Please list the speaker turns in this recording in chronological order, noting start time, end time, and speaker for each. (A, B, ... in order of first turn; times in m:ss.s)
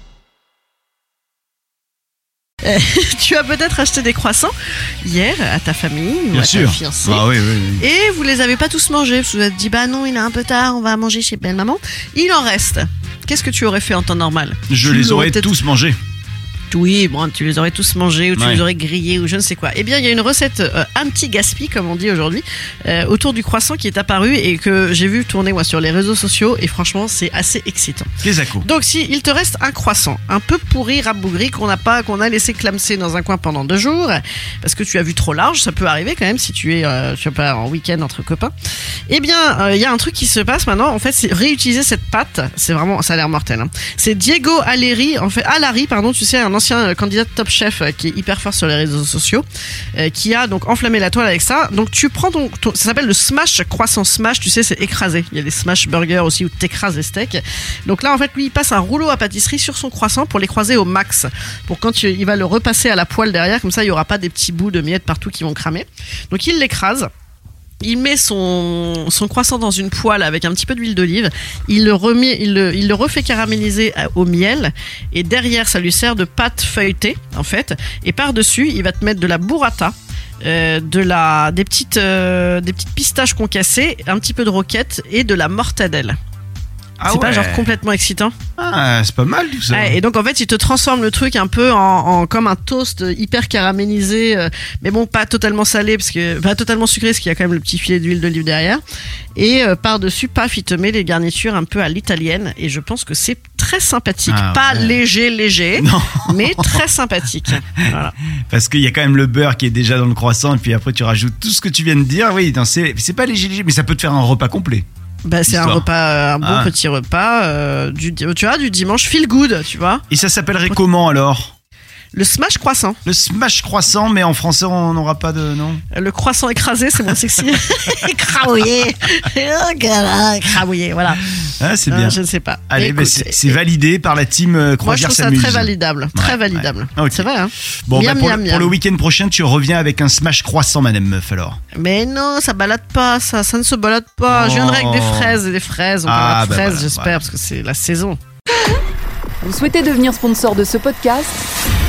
0:02.6-0:04.5 A
0:05.0-0:15.5 A
0:06.3-0:07.8 B
0:14.7-0:16.0 B
0:16.7-0:38.5 A
0:18.3-0:18.6 B
0:28.2-0:28.7 B
0:39.1-0:49.4 A
0:50.0-1:07.1 A
1:07.8-1:26.2 A
1:27.0-1:27.7 B
1:27.1-1:28.3 A
1:28.6-1:30.0 B
1:29.7-1:38.8 A
1:39.4-1:48.1 A
1:44.3-1:45.0 B
1:45.8-1:46.8 B
1:48.5-1:54.8 B
1:55.2-2:00.0 A
1:55.5-1:55.9 B
1:56.4-1:56.7 B
2:00.1-2:01.5 B
2:02.1-2:03.0 A
2:03.0-2:05.8 B
2:05.9-2:11.2 A
2:11.6-2:17.3 B
2:11.9-2:13.6 A
2:14.8-2:18.7 A
2:17.9-2:21.6 B
2:21.7-2:28.2 A
2:24.3-2:25.4 B
2:26.0-2:27.2 B
2:29.4-2:31.4 C